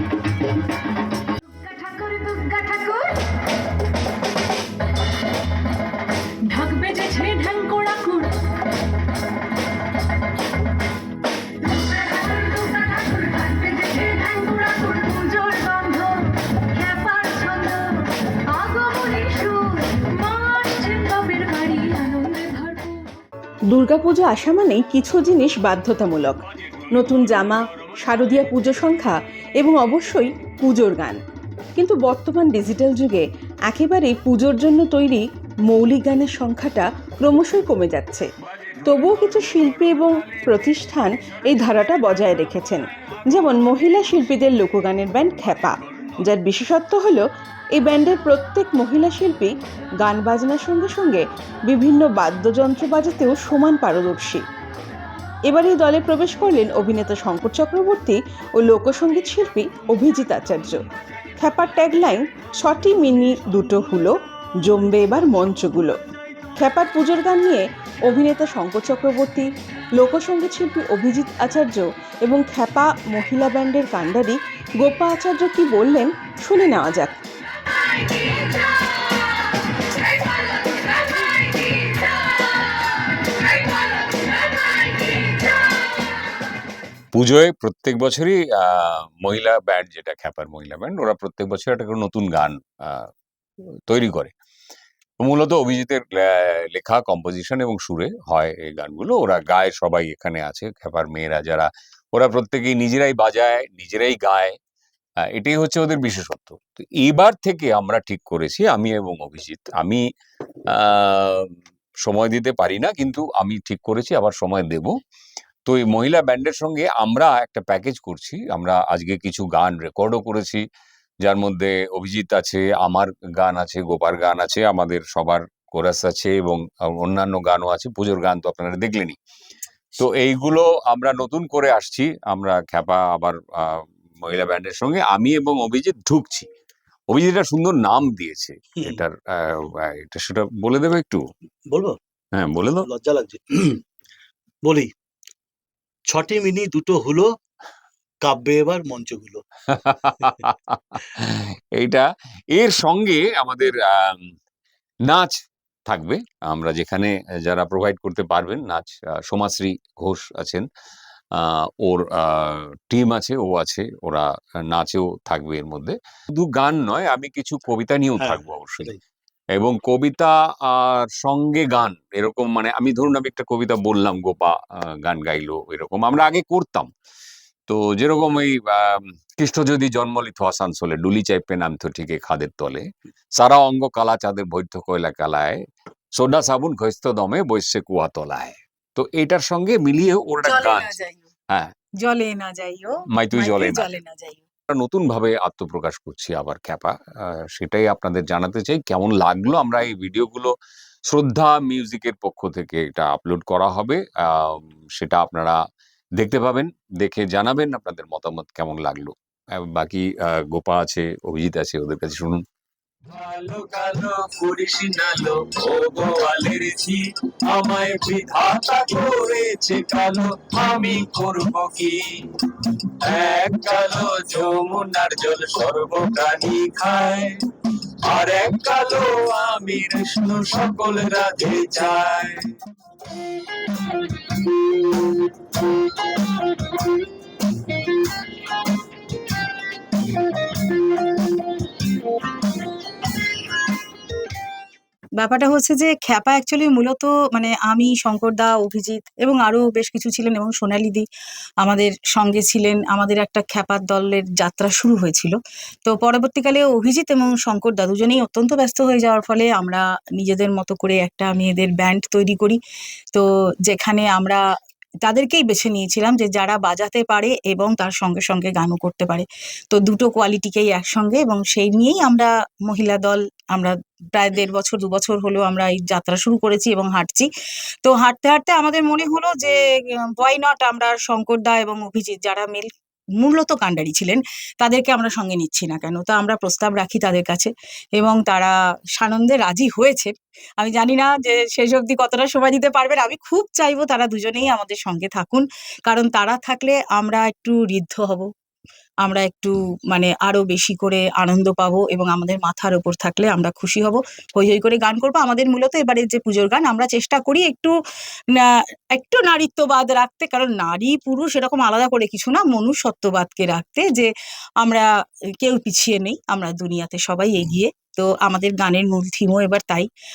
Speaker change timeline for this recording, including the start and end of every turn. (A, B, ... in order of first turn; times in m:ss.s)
0:01.6-0:03.2 A
0:06.5-0:08.3 A
0:11.7-0:23.0 A
0:23.7-0:31.2 A
0:31.8-0:38.3 A
0:38.8-0:47.2 A
0:47.7-0:54.4 A
0:55.5-1:00.8 A
1:01.4-1:06.0 A
1:06.6-1:17.2 A
1:27.1-1:33.1 B
1:33.9-1:34.3 B
1:35.2-1:44.6 B
1:45.3-1:50.0 B
1:50.7-1:54.9 B
1:55.6-2:00.6 B
2:01.2-2:09.2 B
2:10.0-2:16.5 B
2:17.1-2:21.2 B
2:21.7-2:22.0 C
2:22.4-2:22.8 B
2:22.8-2:23.8 C
2:26.1-2:27.3 C
2:28.2-2:29.4 C
2:29.7-2:34.3 B
2:35.0-2:40.6 B
2:41.3-2:48.9 B
2:48.2-2:49.0 C
2:49.5-2:56.9 B
2:57.7-3:05.6 B
3:06.1-3:10.9 B
3:10.4-3:11.2 D
3:12.0-3:14.4 D
3:13.1-3:13.8 B
3:14.7-3:16.9 B
3:17.5-3:20.5 B
3:21.1-3:25.6 B
3:26.2-3:32.4 B
3:33.1-3:37.0 E
3:33.9-3:36.2 B
3:37.5-3:42.0 E
3:37.7-3:40.3 B
3:41.0-3:41.9 B
3:43.0-3:47.4 E
3:43.6-3:45.3 B
3:46.5-3:47.0 B
3:48.1-3:52.4 E
3:48.6-3:51.2 B
4:05.2-4:11.1 D
4:11.6-4:22.6 D
4:23.1-4:24.4 D
4:25.0-4:37.3 D
4:37.8-4:39.6 D
4:40.1-4:42.7 D
4:43.2-4:58.3 D
4:59.0-5:07.7 D
5:08.3-5:14.1 D
5:14.6-5:14.9 D
5:15.4-5:19.9 D